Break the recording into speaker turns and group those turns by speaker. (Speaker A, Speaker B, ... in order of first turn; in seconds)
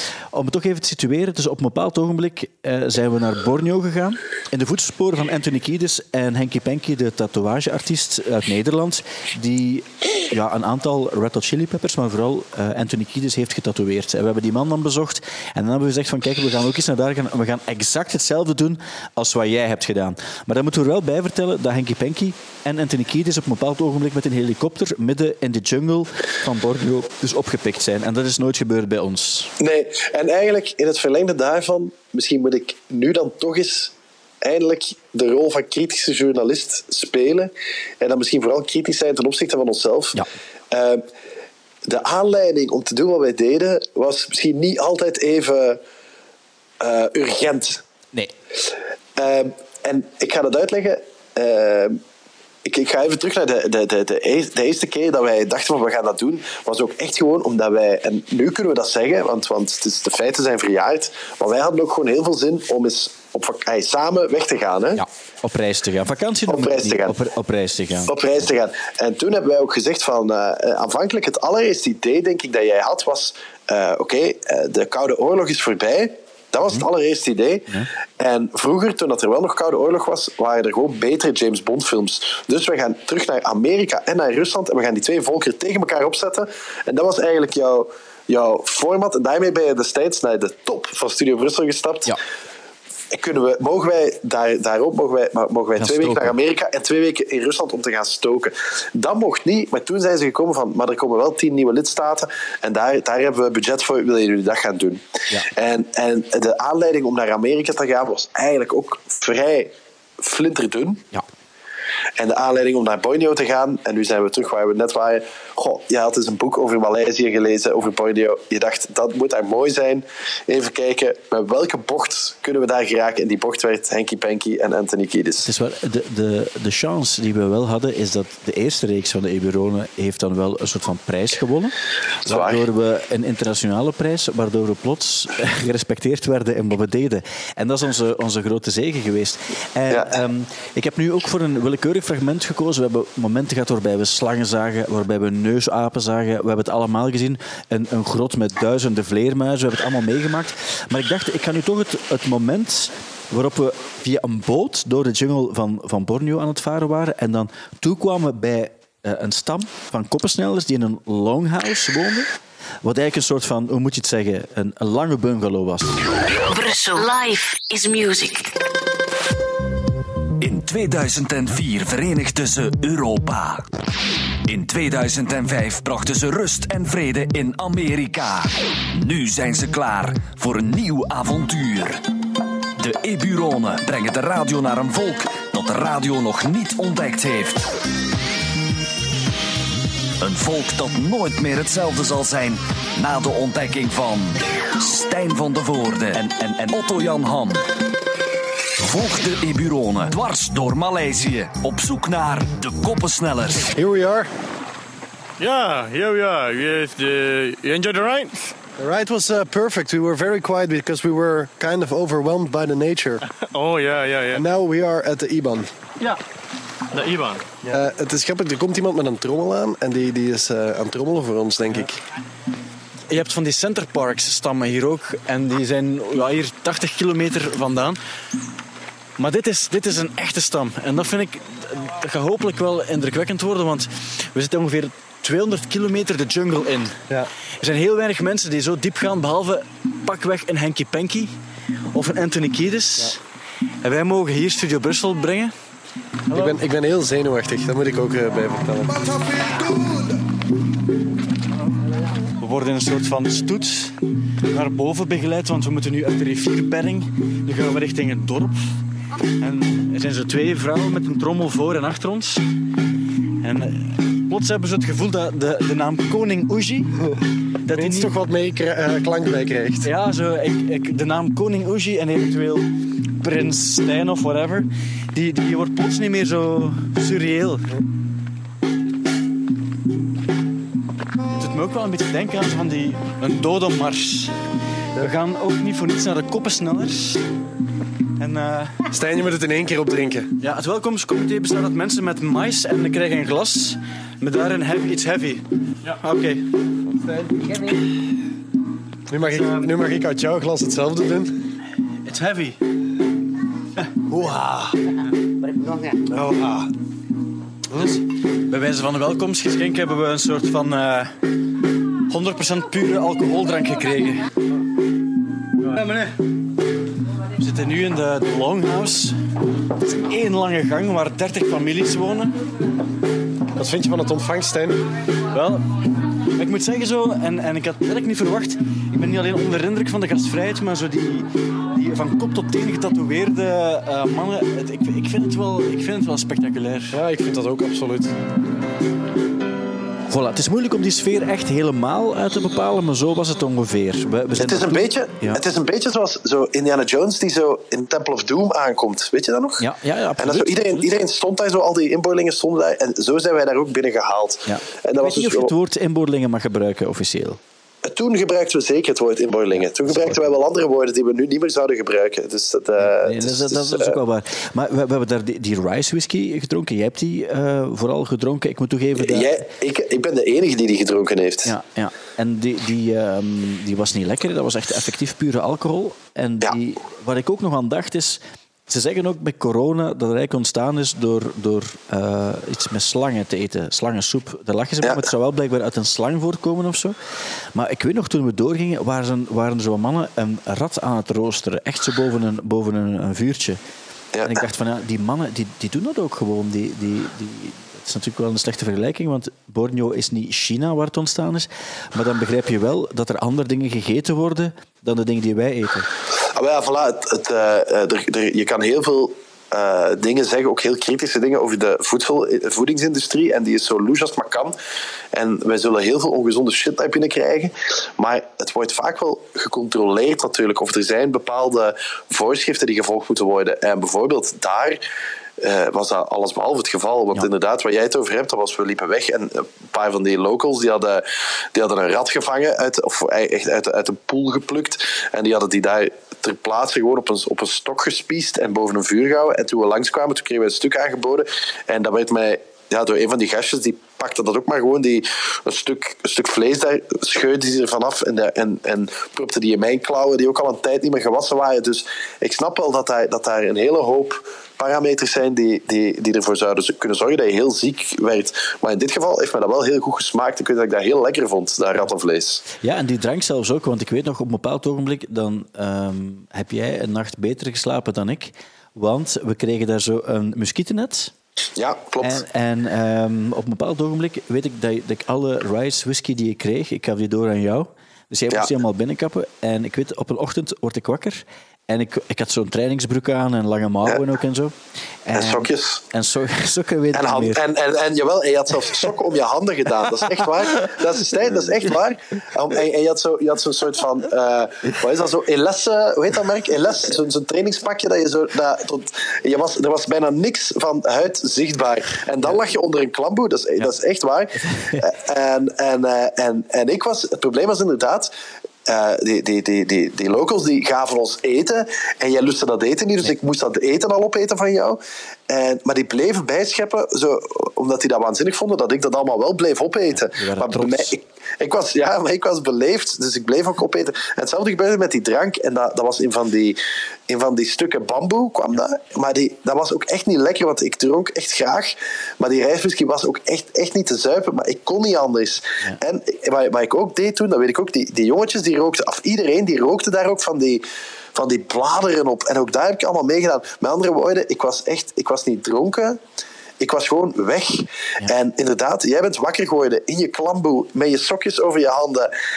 Speaker A: 0.3-29.5, 65.0-68.2, 95.8-96.3, 125.4-131.7, 132.3-162.3, 162.8-166.1, 340.1-345.4, 349.6-350.9, 354.5-357.4, 359.9-360.3, 362.8-369.3, 371.5-386.9, 387.6-393.6, 394.2-405.9, 462.6-471.1, 472.0-484.6, 485.1-487.4, 504.4-504.8, 520.0-520.9
Speaker B: 29.6-33.9, 34.4-40.2, 40.7-41.0, 41.9-45.8, 46.8-47.8, 49.2-52.0, 52.6-65.0, 66.5-67.2, 68.1-77.7, 78.2-92.2, 93.1-105.0, 105.6-111.0, 112.2-125.5, 132.3-132.6, 344.4-349.6, 350.2-355.5, 357.8-364.0, 369.0-371.5, 406.3-414.6, 415.1-424.8, 425.4-462.4, 471.6-472.2, 485.1-485.8, 486.9-508.1, 508.7-526.6, 527.1-540.6, 541.1-546.0, 546.6-552.1
Speaker C: 166.4-168.5
Speaker D: 170.4-173.7, 174.5-182.0, 182.8-187.7, 190.2-197.6, 198.8-203.7
Speaker E: 203.8-204.3, 207.8-213.2, 214.3-215.7, 217.6-222.0, 246.3-249.1, 267.7-269.9, 288.9-290.3, 297.0-297.3, 299.1-301.3, 323.6-324.8, 336.9-338.1
Speaker F: 205.4-208.0, 213.5-214.4, 216.9-217.4
Speaker G: 223.1-228.0, 229.2-237.0, 237.6-241.3, 241.9-243.2, 243.8-245.5, 252.4-258.8, 259.4-262.4, 263.4-266.9, 267.6-268.1, 269.8-277.7, 281.4-284.4, 285.0-287.2, 288.2-288.9, 290.4-296.5, 299.2-299.7, 302.1-302.6, 304.1-304.7, 307.8-311.1, 312.1-314.3, 315.6-316.1, 317.4-319.2, 319.8-322.4, 325.3-325.7, 326.3-337.0